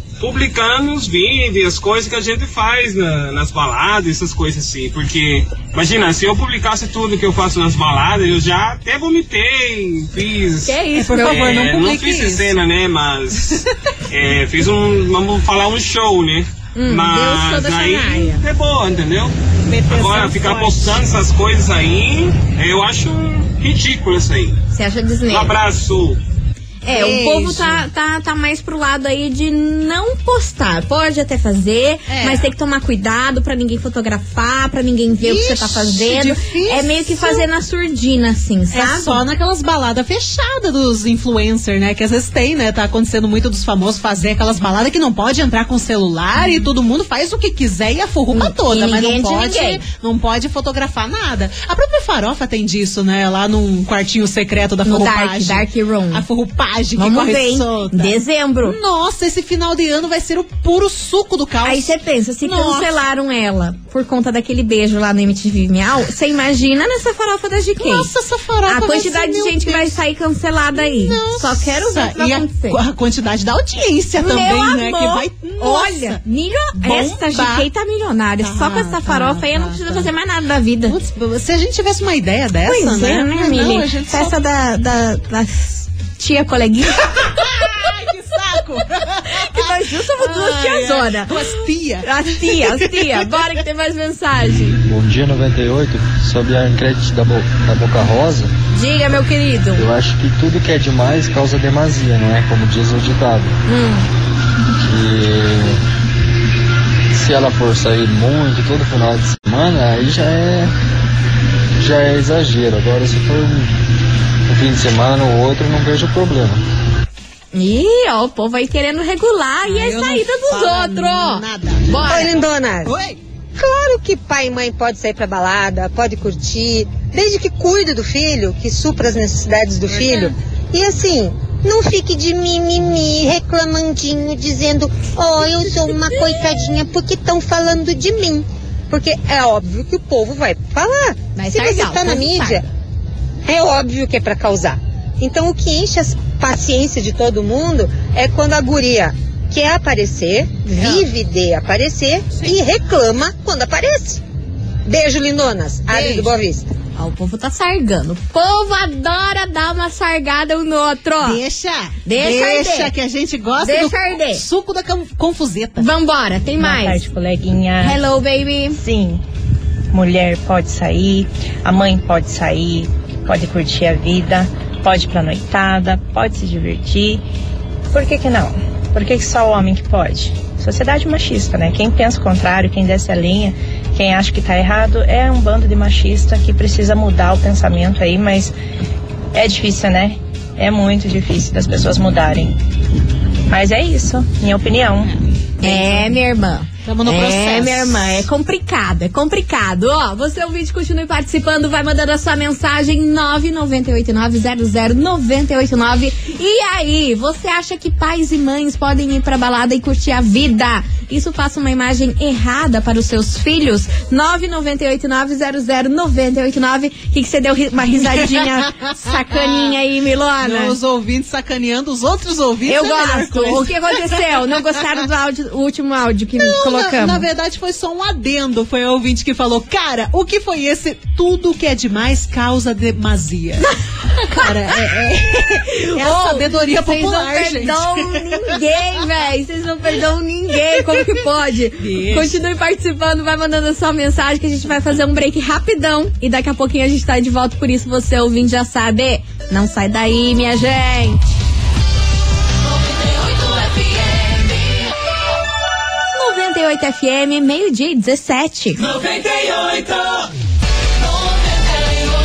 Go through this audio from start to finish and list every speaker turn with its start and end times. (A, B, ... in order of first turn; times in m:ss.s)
0:00.2-0:19.4 A
0:10.6-0:11.6 B
0:11.0-0:12.6 C
0:16.8-0:18.4 B
0:19.7-0:21.0 C
0:19.9-0:24.6 A
0:24.7-0:25.6 B
0:25.3-0:26.2 A
0:26.8-0:39.2 B
0:26.9-0:27.8 C
0:32.1-0:32.5 C
0:35.2-0:37.5 C
0:38.7-1:01.9 C
0:46.4-0:46.7 B
0:48.3-0:49.8 B
0:54.8-0:56.2 B
0:57.0-0:58.8 B
1:01.6-1:08.1 B
1:02.4-1:02.9 C
1:07.8-1:10.0 C
1:08.7-1:12.8 B
1:10.8-1:16.2 C
1:14.2-1:21.0 B
1:16.8-1:17.6 C
1:18.4-1:20.1 C
1:20.9-1:24.4 C
1:22.7-1:27.1 B
1:27.2-1:33.3 C
1:29.3-1:34.8 B
1:34.8-1:38.5 D
1:38.7-1:39.9 B
1:39.8-1:43.6 D
1:43.7-1:44.1 B
1:44.8-1:45.8 D
1:47.1-1:50.7 D
1:51.8-1:53.7 D
1:54.5-1:56.6 D
1:57.5-2:02.3 B
1:59.6-2:03.2 C
2:02.1-2:02.9 E
2:03.6-2:22.6 E
2:09.9-2:10.3 C
2:21.4-2:22.6 B
2:23.4-2:34.2 E
2:30.8-2:31.0 B
2:34.9-2:36.7 E
2:35.9-2:36.3 C
2:37.0-2:41.4 B
2:41.2-2:45.9 C
2:42.1-2:42.9 B
2:43.6-2:44.4 B
2:45.8-2:47.0 B
2:46.6-2:48.0 F
2:47.8-2:48.8 B
2:48.7-2:49.2 F
2:49.9-2:57.2 F
2:57.9-3:08.5 F
3:09.3-3:12.6 F
3:13.5-3:15.1 F
3:15.6-3:40.8 B
3:15.6-3:16.1 C
3:16.8-3:18.3 C
3:38.0-3:39.8 C
3:40.4-3:44.5 C
3:42.7-3:47.2 B
3:46.4-3:58.4 C
3:55.6-4:11.2 B
4:01.8-4:02.4 C
4:16.1-4:18.8 B
4:19.1-4:19.6 C